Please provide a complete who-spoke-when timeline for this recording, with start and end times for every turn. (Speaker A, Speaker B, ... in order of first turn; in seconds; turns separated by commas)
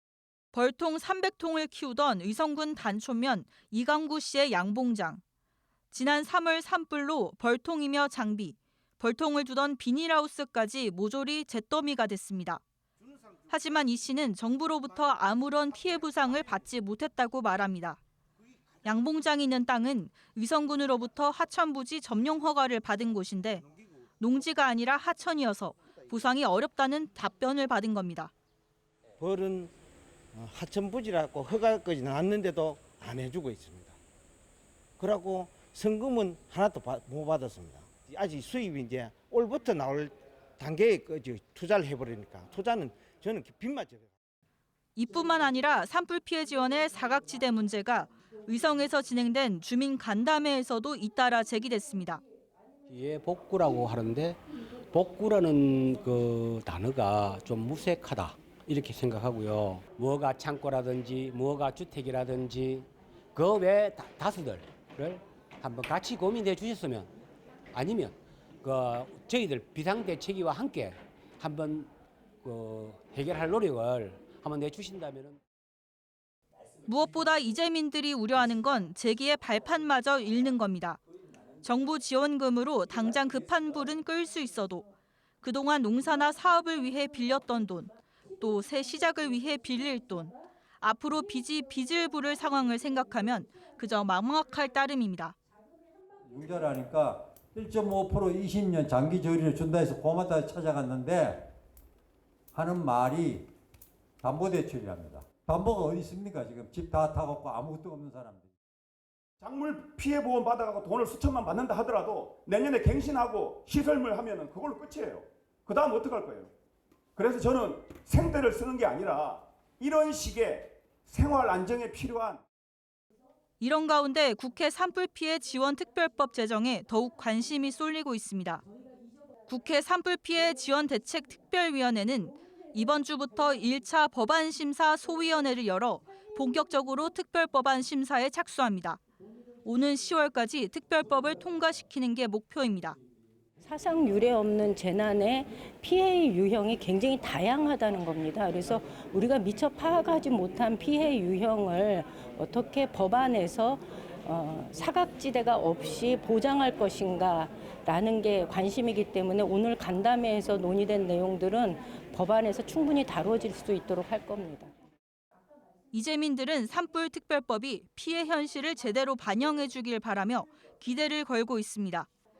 Speaker A: 0.5-5.2, Speaker A: 5.9-12.6, Speaker A: 13.5-18.0, Speaker A: 18.8-23.6, Speaker A: 24.2-28.3, Speaker B: 29.2-29.7, Speaker B: 30.3-34.0, Speaker B: 35.0-44.1, Speaker A: 45.0-52.2, Speaker C: 52.9-67.1, Speaker C: 67.7-71.9, Speaker C: 72.4-75.4, Speaker A: 76.9-81.0, Speaker A: 81.6-84.8, Speaker A: 85.4-95.3, Speaker D: 96.3-101.5, Speaker D: 102.5-103.5, Speaker D: 104.2-108.5, Speaker E: 109.4-116.5, Speaker E: 117.2-122.4, Speaker A: 123.6-128.6, Speaker A: 129.5-139.0, Speaker A: 139.6-143.0, Speaker F: 143.6-164.7, Speaker A: 165.9-172.1